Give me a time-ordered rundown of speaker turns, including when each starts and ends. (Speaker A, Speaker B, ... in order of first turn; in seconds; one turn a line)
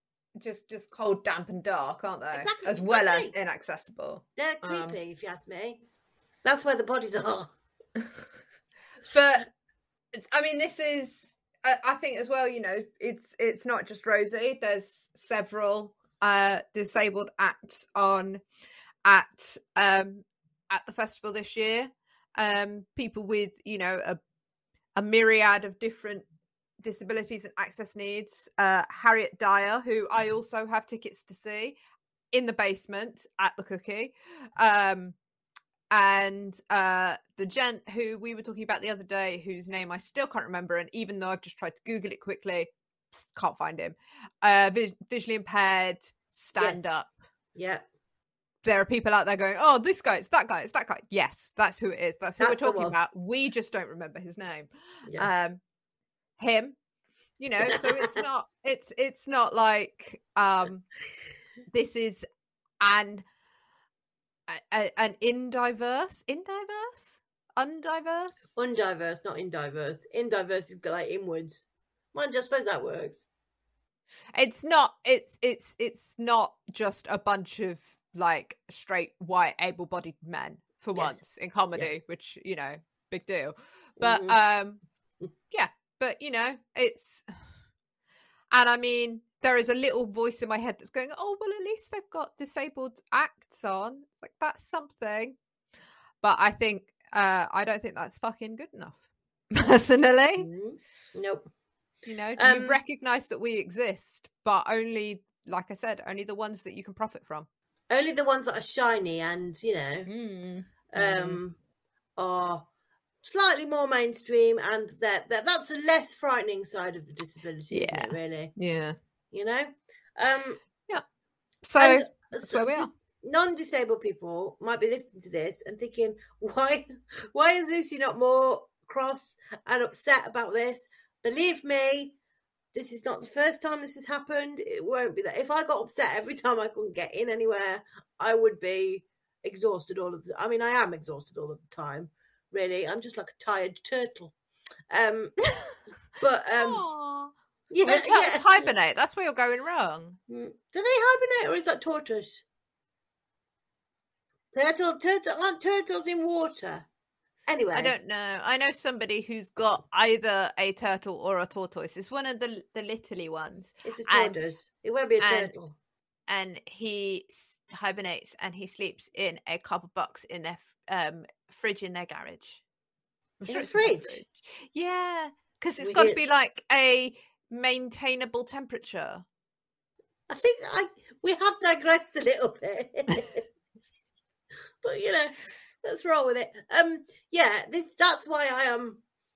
Speaker A: 0.4-5.0
Speaker B: 2.3-3.3
Speaker B: 4.4-5.8
Speaker B: 6.4-7.5
Speaker A: 9.1-9.5
Speaker A: 10.1-18.4
Speaker A: 19.0-24.2
Speaker A: 24.9-26.3
Speaker A: 26.8-31.8
Speaker A: 32.3-35.2
Speaker A: 35.9-47.1
Speaker B: 46.6-46.8
Speaker B: 47.5-47.9
Speaker A: 48.6-55.6
Speaker B: 52.4-53.0
Speaker A: 56.4-56.8
Speaker A: 57.4-60.9
Speaker B: 57.6-58.2
Speaker A: 61.7-62.2
Speaker A: 62.8-63.2
Speaker A: 64.5-68.5
Speaker B: 68.6-73.3
Speaker A: 74.3-84.8
Speaker B: 84.0-84.4
Speaker A: 85.5-87.3
Speaker A: 88.5-95.4
Speaker A: 96.2-100.5
Speaker B: 100.4-101.5
Speaker A: 102.1-107.5
Speaker B: 102.4-102.8
Speaker B: 107.9-110.1
Speaker A: 110.1-111.4
Speaker B: 110.9-111.6
Speaker B: 112.2-112.7
Speaker B: 113.2-118.5
Speaker A: 117.7-119.0
Speaker B: 119.3-120.6
Speaker A: 121.6-122.9
Speaker B: 121.8-132.2
Speaker B: 132.7-144.3
Speaker B: 144.9-145.4
Speaker B: 146.2-146.8
Speaker A: 146.5-147.3
Speaker B: 147.7-148.7
Speaker A: 147.9-150.2
Speaker B: 150.3-152.4
Speaker B: 154.5-156.9
Speaker B: 157.5-157.9
Speaker A: 157.8-164.4
Speaker B: 163.8-165.8
Speaker A: 165.2-165.5
Speaker A: 166.3-172.6
Speaker A: 173.4-179.2
Speaker B: 173.5-174.2
Speaker B: 175.8-176.2
Speaker B: 180.3-183.4
Speaker B: 184.8-189.0